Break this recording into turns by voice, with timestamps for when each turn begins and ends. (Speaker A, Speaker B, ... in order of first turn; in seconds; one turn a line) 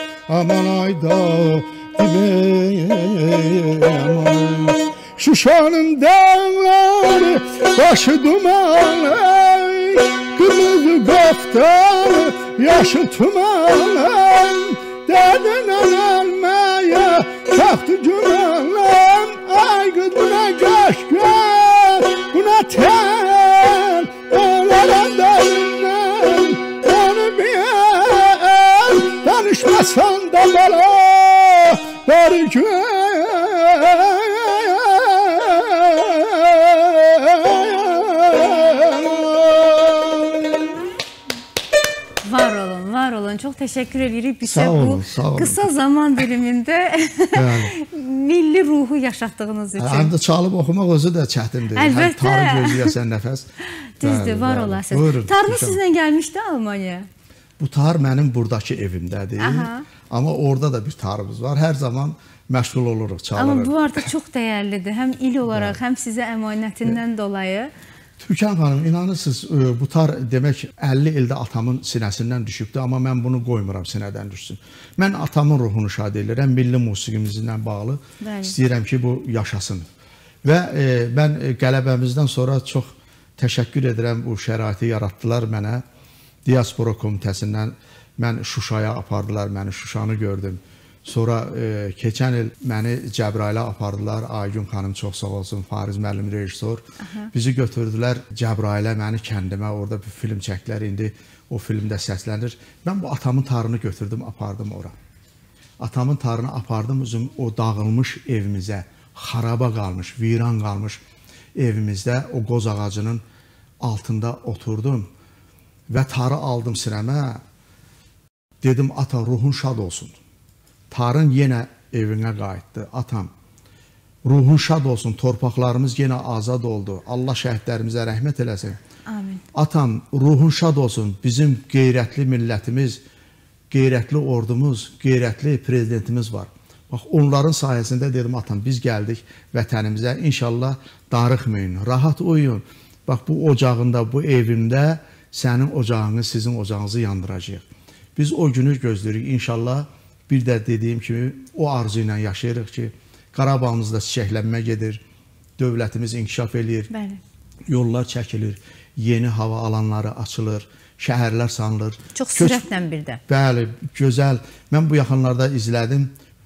Speaker A: 0.3-40.8
Speaker B: 42.2-50.1
Speaker A: 44.4-45.7
Speaker A: 47.3-47.7
Speaker A: 49.8-53.5
Speaker B: 51.7-53.0
Speaker B: 53.7-57.1
Speaker A: 54.0-55.8
Speaker A: 57.6-64.1
Speaker B: 59.4-59.9
Speaker B: 63.3-67.7
Speaker A: 65.5-65.8
Speaker A: 68.2-79.8
Speaker B: 78.2-78.5
Speaker A: 80.4-85.8
Speaker A: 86.4-96.8
Speaker B: 97.0-97.3
Speaker A: 97.3-104.9
Speaker A: 105.8-111.0
Speaker A: 111.5-113.2
Speaker A: 113.8-115.1
Speaker A: 115.9-117.4
Speaker A: 118.6-120.2
Speaker A: 120.9-123.3
Speaker A: 124.2-128.8
Speaker B: 129.1-129.4
Speaker A: 129.5-133.0
Speaker A: 133.7-147.6
Speaker A: 148.2-155.0
Speaker A: 155.6-156.9
Speaker B: 156.9-157.2
Speaker A: 157.7-162.6
Speaker B: 162.1-163.2
Speaker A: 163.3-166.1